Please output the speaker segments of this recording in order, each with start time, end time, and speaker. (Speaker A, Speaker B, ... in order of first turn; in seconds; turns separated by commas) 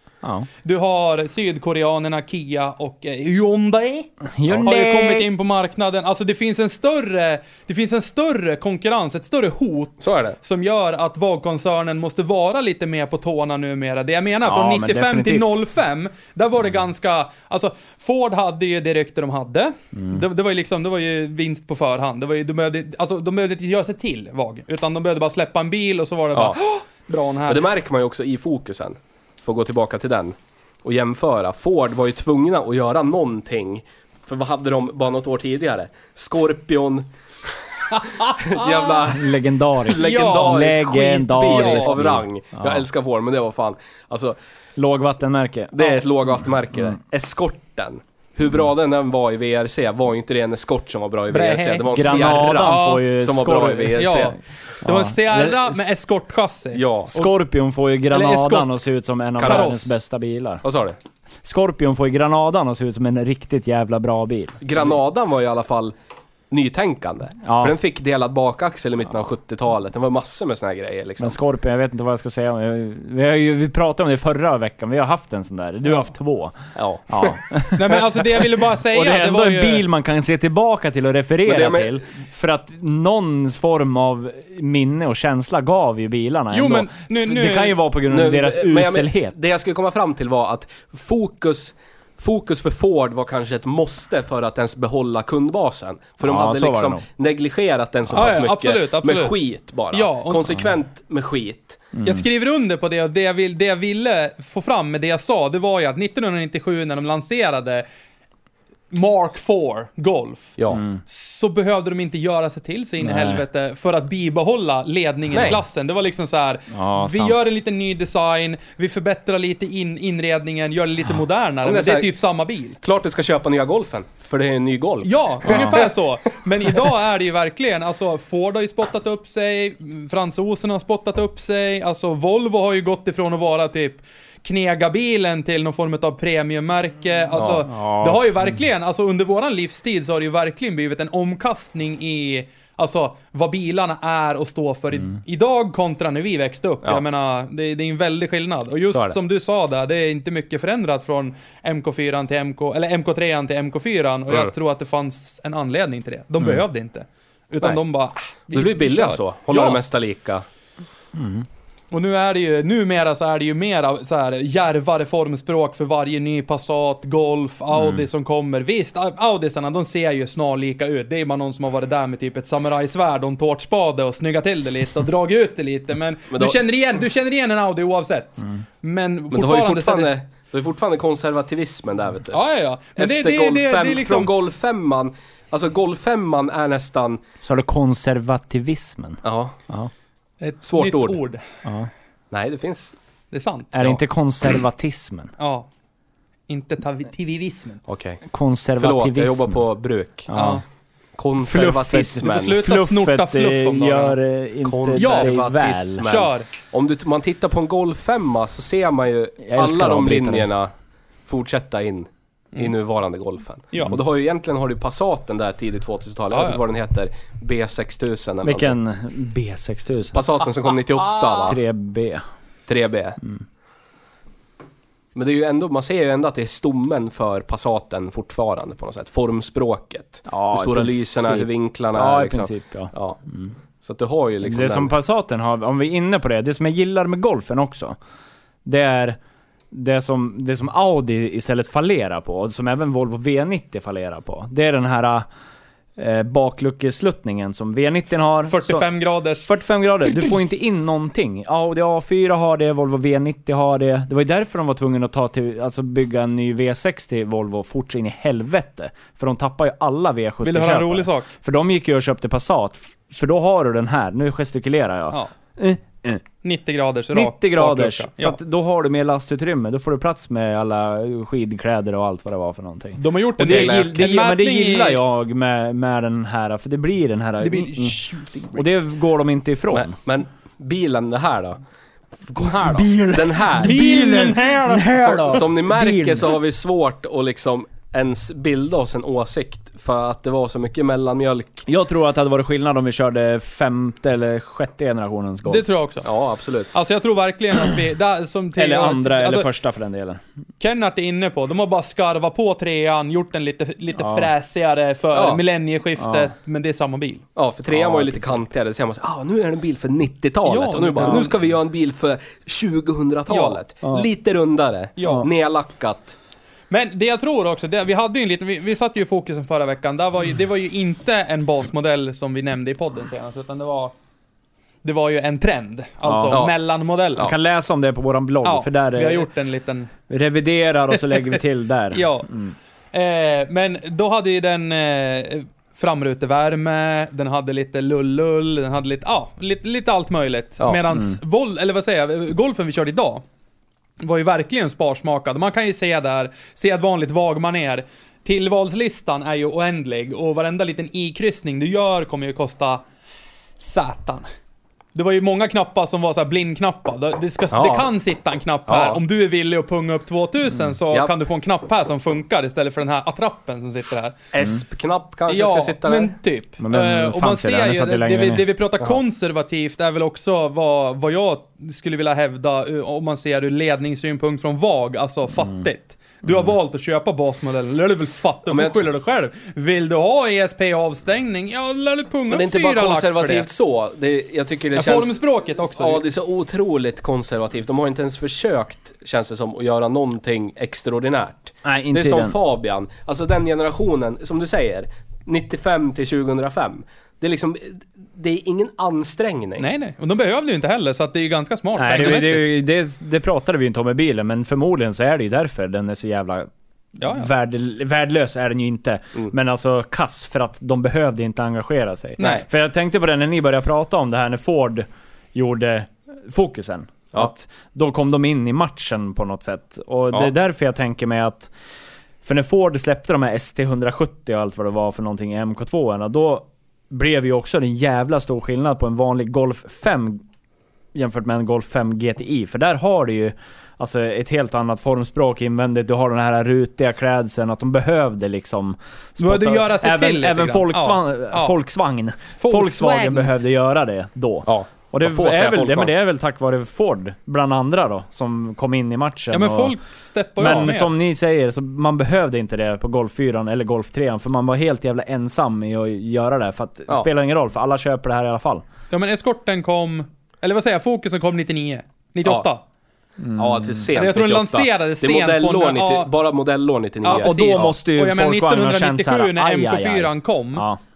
Speaker A: 0.2-0.5, Speaker B: 0.6-27.7, Speaker A: 4.4-5.3, Speaker C: 10.0-10.4, Speaker A: 14.5-15.5, Speaker A: 19.9-20.2, Speaker C: 26.3-26.6, Speaker C: 27.5-44.4, Speaker B: 37.9-38.9, Speaker A: 39.0-42.8, Speaker B: 39.9-40.8, Speaker B: 41.3-41.9, Speaker A: 44.8-45.9, Speaker C: 45.7-54.4, Speaker B: 51.3-53.0, Speaker A: 51.9-55.8, Speaker B: 54.0-57.3, Speaker C: 56.7-57.1, Speaker A: 57.1-60.6, Speaker B: 58.1-58.8, Speaker C: 59.4-59.9, Speaker B: 59.4-59.8, Speaker C: 60.6-61.0, Speaker A: 61.4-64.8, Speaker C: 64.6-65.9, Speaker C: 66.5-71.4, Speaker A: 67.4-67.8, Speaker A: 71.2-76.5, Speaker C: 76.8-77.7, Speaker A: 77.1-78.0, Speaker B: 77.8-79.9, Speaker A: 78.9-89.3, Speaker C: 81.4-82.0, Speaker B: 86.5-87.8, Speaker C: 88.1-101.9, Speaker A: 96.2-97.0, Speaker B: 98.1-99.4, Speaker B: 99.9-100.5, Speaker A: 102.0-102.2, Speaker B: 102.0-107.8, Speaker B: 108.9-110.5, Speaker C: 110.6-110.8, Speaker B: 111.0-122.8, Speaker A: 113.0-113.4, Speaker C: 115.3-115.6, Speaker A: 116.7-117.4, Speaker C: 121.6-122.1, Speaker C: 122.8-125.9, Speaker B: 125.0-159.8, Speaker A: 125.5-125.8, Speaker C: 137.4-137.6, Speaker A: 137.7-138.5, Speaker C: 148.9-149.2, Speaker C: 158.5-160.4, Speaker A: 161.2-161.4, Speaker B: 161.9-180.1, Speaker A: 167.7-168.0, Speaker C: 176.3-176.6, Speaker C: 179.3-182.4, Speaker B: 182.3-184.3, Speaker C: 182.9-187.2, Speaker A: 187.4-189.9, Speaker C: 189.2-189.6, Speaker B: 190.4-191.4, Speaker C: 190.6-191.2, Speaker A: 191.6-191.9, Speaker C: 192.3-192.9, Speaker B: 193.3-193.7, Speaker A: 193.7-195.3, Speaker B: 195.4-195.7, Speaker B: 196.5-197.8, Speaker C: 197.9-198.2, Speaker A: 198.3-199.6, Speaker C: 198.8-200.3, Speaker A: 200.3-200.6, Speaker B: 200.3-200.6, Speaker C: 201.2-202.6, Speaker A: 201.4-206.0, Speaker B: 202.2-204.2, Speaker C: 204.6-210.7, Speaker B: 204.9-205.4, Speaker B: 206.0-206.5, Speaker A: 209.4-210.5, Speaker C: 211.3-218.8, Speaker B: 216.3-216.6, Speaker A: 218.4-220.2, Speaker C: 220.1-221.6, Speaker B: 221.0-221.5, Speaker A: 221.4-222.2, Speaker C: 222.7-223.2, Speaker C: 225.1-233.2, Speaker A: 230.3-233.5, Speaker C: 233.8-234.9, Speaker A: 234.4-238.0, Speaker A: 238.6-239.2, Speaker A: 239.7-245.2, Speaker A: 246.0-248.9, Speaker B: 248.5-249.5, Speaker A: 249.4-266.2, Speaker B: 260.4-261.3, Speaker B: 266.4-268.4, Speaker A: 267.1-279.9, Speaker B: 273.0-275.0, Speaker C: 273.4-273.9, Speaker B: 277.4-278.6, Speaker C: 279.7-281.6, Speaker C: 282.3-283.9, Speaker B: 282.5-283.0, Speaker A: 282.6-286.3, Speaker B: 283.5-285.4, Speaker C: 285.0-291.6, Speaker A: 291.6-295.6, Speaker B: 295.4-296.1, Speaker C: 296.0-296.7, Speaker B: 296.7-299.5, Speaker A: 298.6-300.2, Speaker B: 300.6-307.2, Speaker A: 304.0-304.3, Speaker C: 305.1-305.4, Speaker A: 306.0-306.3, Speaker C: 307.4-316.2, Speaker A: 307.7-308.3, Speaker B: 310.4-311.3, Speaker B: 313.3-313.6, Speaker B: 315.0-315.2, Speaker B: 316.7-323.9, Speaker B: 324.8-327.3, Speaker A: 326.0-326.4, Speaker A: 327.2-329.3, Speaker B: 328.4-329.9, Speaker A: 330.1-332.5, Speaker B: 331.9-332.3, Speaker B: 332.9-343.2, Speaker B: 344.0-352.8, Speaker B: 353.6-354.3, Speaker B: 354.9-364.1, Speaker C: 357.5-357.9, Speaker C: 358.7-359.0, Speaker C: 364.3-366.1, Speaker B: 365.3-383.5, Speaker A: 366.6-368.4, Speaker C: 378.5-378.9, Speaker C: 382.3-385.2, Speaker B: 384.8-386.0, Speaker C: 385.8-399.7, Speaker A: 391.6-392.4, Speaker B: 399.6-402.5, Speaker A: 401.8-406.5, Speaker C: 401.9-402.4, Speaker B: 407.0-407.3, Speaker A: 407.1-421.5, Speaker B: 412.2-412.4, Speaker A: 422.2-430.2, Speaker A: 430.9-449.8, Speaker B: 439.2-441.5, Speaker B: 442.4-443.3, Speaker C: 444.5-445.9, Speaker B: 449.3-450.9, Speaker A: 450.4-458.6, Speaker B: 458.9-462.6, Speaker A: 463.2-463.9, Speaker C: 463.4-467.7, Speaker B: 463.9-466.1, Speaker B: 467.0-470.6, Speaker A: 467.1-470.8